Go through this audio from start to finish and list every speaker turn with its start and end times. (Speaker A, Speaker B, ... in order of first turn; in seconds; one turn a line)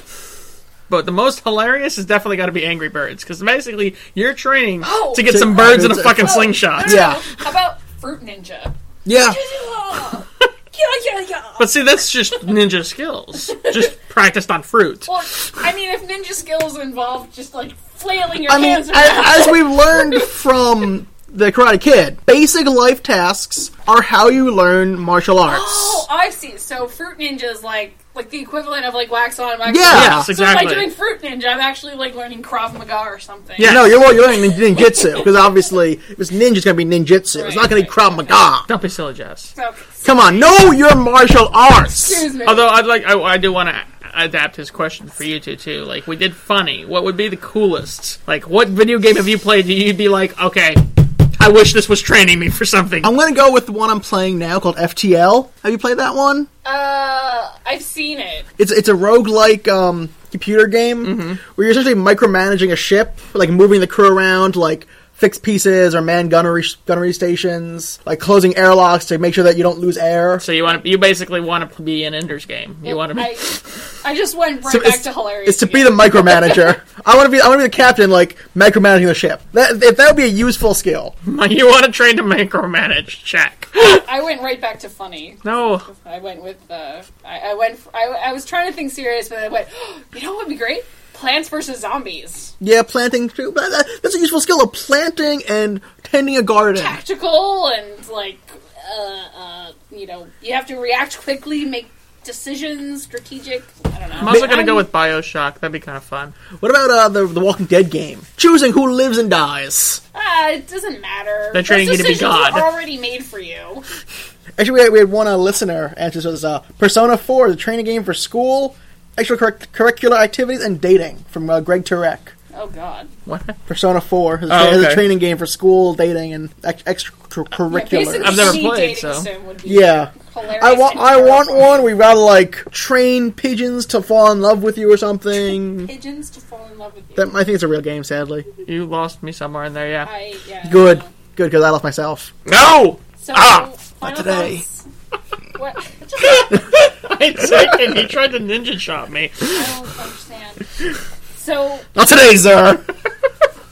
Speaker A: 0.9-7.2
Speaker B: 4.8-12.3
Speaker C: 5.2-7.2
Speaker C: 9.1-9.4
Speaker A: 11.6-15.1
Speaker B: 15.1-20.3
Speaker C: 18.5-26.0
Speaker B: 25.4-33.8
Speaker C: 29.6-30.3
Speaker A: 29.9-30.9
Speaker A: 33.6-34.0
Speaker C: 33.6-38.7
Speaker B: 37.3-38.5
Speaker A: 38.6-39.5
Speaker B: 39.5-40.5
Speaker C: 40.0-42.2
Speaker B: 41.8-42.8
Speaker A: 42.4-50.8
Speaker A: 51.4-53.1
Speaker C: 53.0-56.5
Speaker B: 56.6-58.5
Speaker C: 58.6-70.4
Speaker A: 61.0-61.4
Speaker A: 70.4-73.5
Speaker B: 72.8-76.7
Speaker C: 74.7-81.1
Speaker A: 81.2-84.0
Speaker B: 83.7-92.5
Speaker A: 85.4-85.8
Speaker C: 92.6-97.0
Speaker B: 96.7-104.9
Speaker A: 104.2-106.3
Speaker C: 104.2-104.6
Speaker C: 106.6-110.0
Speaker B: 110.1-113.8
Speaker A: 111.5-112.7
Speaker C: 114.6-122.3
Speaker B: 122.5-123.1
Speaker A: 123.2-123.6
Speaker C: 123.7-128.6
Speaker A: 124.5-125.1
Speaker B: 127.7-131.9
Speaker A: 128.2-129.3
Speaker C: 129.7-135.9
Speaker B: 135.8-137.3
Speaker C: 137.2-138.4
Speaker A: 138.6-140.1
Speaker B: 140.0-141.1
Speaker C: 140.6-142.3
Speaker A: 142.4-143.7
Speaker B: 143.2-144.9
Speaker C: 144.0-144.6
Speaker B: 145.6-146.7
Speaker A: 146.2-149.7
Speaker B: 149.5-150.6
Speaker B: 151.3-151.8
Speaker C: 151.9-152.8